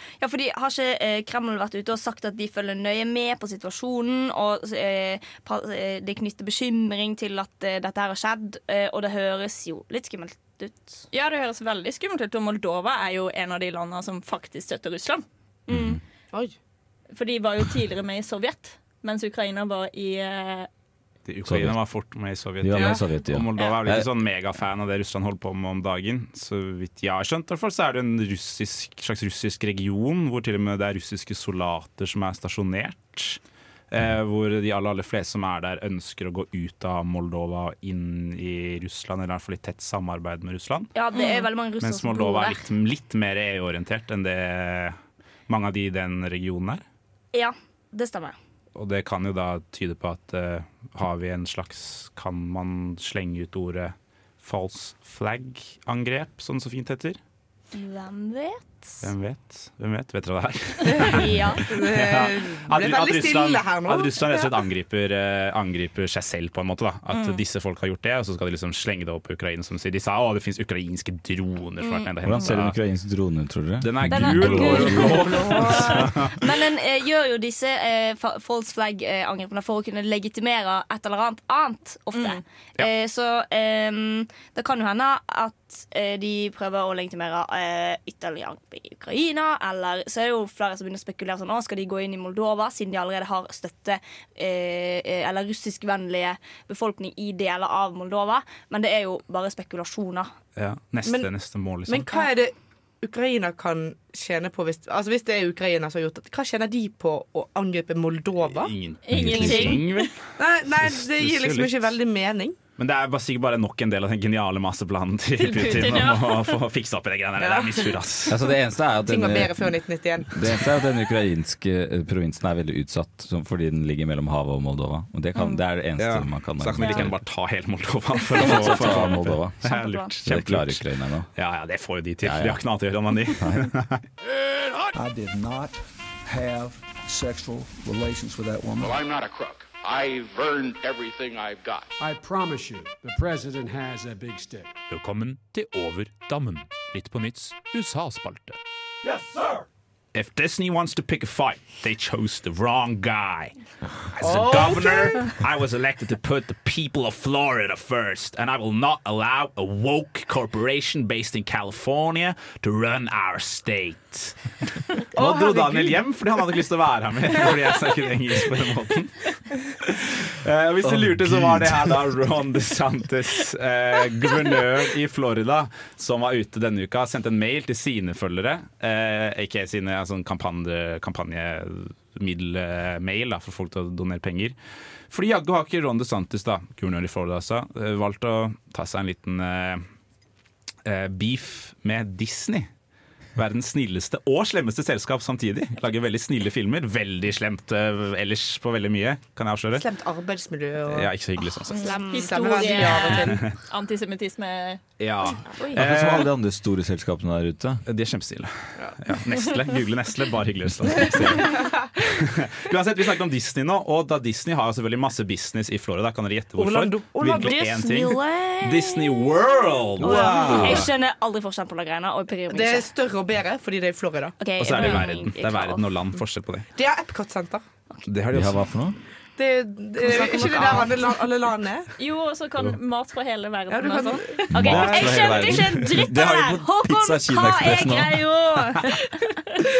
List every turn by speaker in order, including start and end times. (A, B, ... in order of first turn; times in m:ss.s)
0:00.2-0:11.0 A
0:11.1-0:15.2 B
0:15.7-0:16.0 A
0:15.7-0:16.0 C
0:17.1-0:20.7 B
0:21.3-0:33.4 D
0:21.4-0:21.8 C
0:22.6-0:24.1 C
0:33.9-0:40.9 D
0:40.9-0:42.6 A
0:41.2-0:41.4 B
0:41.8-0:45.0 D
0:45.5-0:46.8 D
0:47.3-0:48.4 A
0:48.7-0:57.2 D
0:57.7-0:59.1 A
0:59.0-1:12.8 D
1:00.9-1:04.2 E
1:01.1-1:01.6 A
1:11.8-1:12.1 A
1:12.2-1:15.4 C
1:13.8-1:16.5 D
1:14.1-1:40.3 A
1:15.5-1:15.8 E
1:22.1-1:22.4 B
1:40.6-1:42.1 D
1:41.9-1:48.7 E
1:48.4-1:50.2 D
1:49.0-1:50.1 B
1:49.1-1:49.8 C
1:50.4-1:52.6 E
1:50.8-1:51.9 D
1:52.8-1:58.4 D
1:55.4-1:56.6 B
1:57.4-1:58.0 E
1:58.3-1:59.8 C
1:59.0-2:00.7 E
2:00.3-2:07.2 C
2:06.0-2:14.0 D
2:08.4-2:11.3 C
2:08.7-2:09.0 A
2:09.6-2:10.1 A
2:12.2-2:12.6 C
2:13.4-2:13.7 C
2:14.9-2:19.0 F
2:18.8-2:21.9 G
2:22.0-2:24.7 H
2:24.9-2:28.6 I
2:30.1-2:33.5 D
2:34.1-2:44.4 D
2:45.0-2:49.2 D
2:45.2-2:46.0 E
2:49.8-3:04.6 D
2:50.9-2:51.8 C
3:05.1-3:09.8 D
3:10.8-3:12.7 D
3:13.4-3:19.8 D
3:19.7-3:21.1 E
3:20.9-3:21.9 D
3:21.7-3:23.1 A
3:21.7-3:24.8 B
3:22.1-3:23.5 E
3:23.1-3:23.6 D
3:25.0-3:26.3 D
3:25.5-3:25.8 A
3:25.7-3:27.8 C
3:27.8-3:40.9 D
3:36.6-3:37.8 E
3:37.2-3:39.4 A
3:40.0-3:42.9 A
3:40.0-3:40.8 E
3:40.2-3:40.8 C
3:42.5-3:44.4 E
3:44.4-3:45.8 A
3:44.6-3:46.6 D
3:46.7-3:47.6 E
3:48.1-3:48.7 D
3:48.3-3:49.0 C
3:49.4-3:51.9 E
3:50.0-3:51.1 A
3:52.0-3:54.4 B
3:53.7-3:54.5 E
3:54.5-3:58.2 C
3:54.5-3:59.0 A
3:54.5-3:55.4 D